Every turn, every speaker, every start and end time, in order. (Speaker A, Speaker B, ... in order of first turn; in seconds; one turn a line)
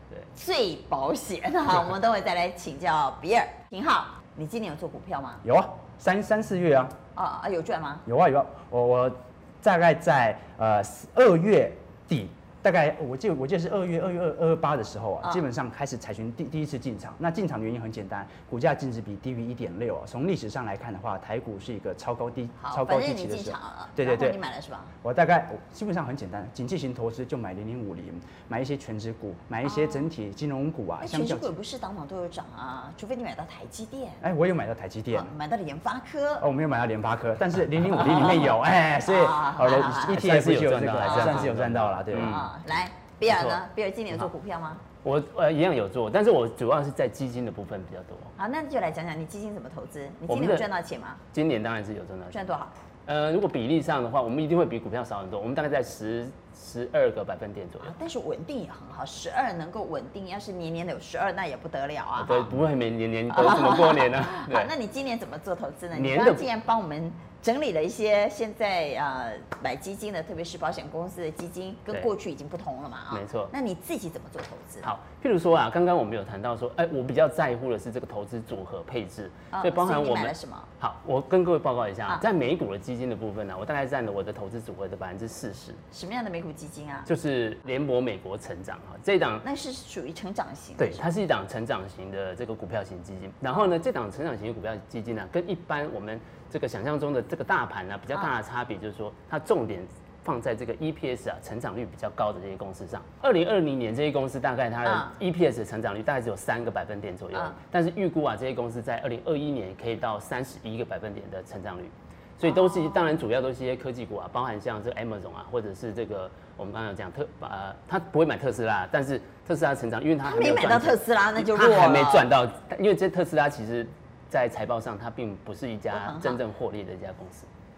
Speaker A: 0.3-5.4
Speaker B: 5.4-6.9
Speaker A: 7.1-8.0
Speaker B: 8.1-24.4
Speaker A: 22.6-24.9
Speaker B: 25.0-31.5
Speaker A: 29.6-30.1
Speaker A: 31.0-34.2
Speaker B: 34.2-35.3
Speaker A: 35.1-36.5
Speaker B: 36.4-42.5
Speaker A: 38.0-40.3
Speaker C: 39.8-42.5
Speaker A: 41.0-41.5
Speaker A: 42.1-44.8
Speaker C: 43.3-43.6
Speaker C: 45.0-48.3
Speaker A: 48.4-51.2
Speaker C: 50.3-50.7
Speaker C: 51.3-52.4
Speaker A: 52.3-52.7
Speaker C: 53.0-57.9
Speaker A: 57.8-62.5
Speaker C: 62.2-64.7
Speaker A: 63.3-74.9
Speaker C: 65.9-66.5
Speaker C: 73.1-73.5
Speaker C: 74.8-85.8
Speaker A: 79.5-80.7
Speaker A: 85.9-87.1
Speaker C: 87.0-89.4
Speaker A: 89.4-91.0
Speaker C: 90.8-127.5
Speaker A: 104.8-105.1
Speaker A: 112.4-113.1
Speaker A: 120.2-122.3
Speaker A: 125.9-126.4